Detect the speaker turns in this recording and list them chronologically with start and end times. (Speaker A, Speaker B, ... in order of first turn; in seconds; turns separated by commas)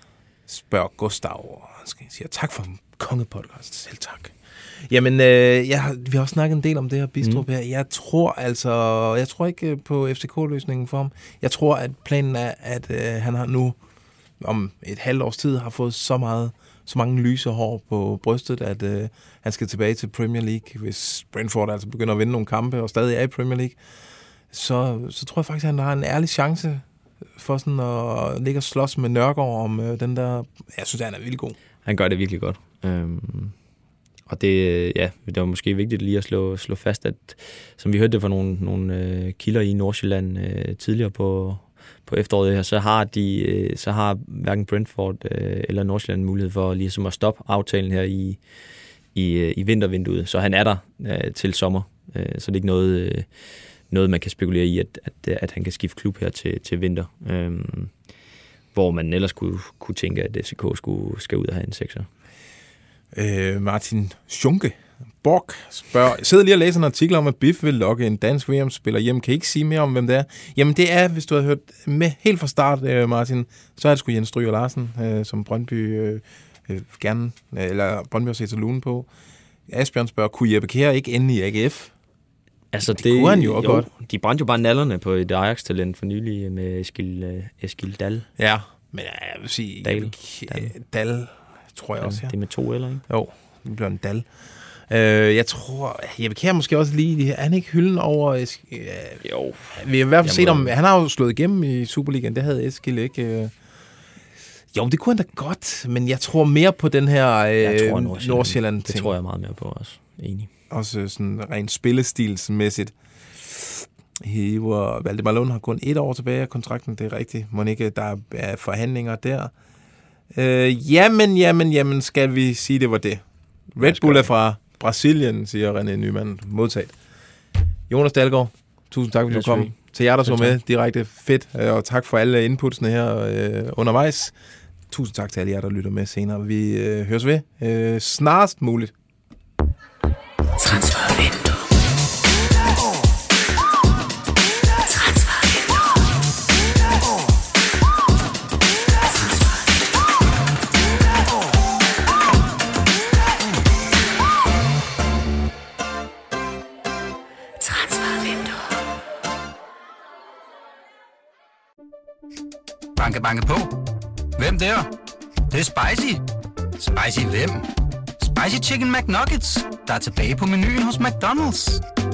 Speaker A: 0.5-13.8, Speaker A: 14.4-23.8, Speaker A: 24.5-26.8, Speaker A: 27.4-31.6, Speaker B: 31.8-33.5, Speaker B: 34.3-48.4, Speaker B: 49.1-53.3, Speaker B: 53.9-58.0, Speaker B: 58.7-62.1, Speaker A: 63.1-79.1, Speaker A: 79.7-81.9, Speaker B: 82.7-88.3, Speaker A: 82.8-83.9, Speaker A: 88.4-92.3, Speaker B: 89.8-90.7, Speaker B: 92.0-93.0, Speaker A: 93.1-94.3, Speaker A: 94.9-103.5, Speaker B: 99.2-100.7, Speaker A: 104.7-109.1, Speaker B: 107.6-110.5, Speaker A: 110.7-119.5, Speaker A: 120.3-123.2, Speaker B: 123.8-124.3, Speaker A: 123.8-126.9, Speaker A: 127.9-134.3, Speaker B: 129.3-130.6, Speaker A: 134.9-138.9, Speaker C: 163.0-163.8, Speaker C: 164.4-164.9, Speaker C: 165.5-166.2, Speaker C: 166.8-167.7, Speaker C: 168.2-171.8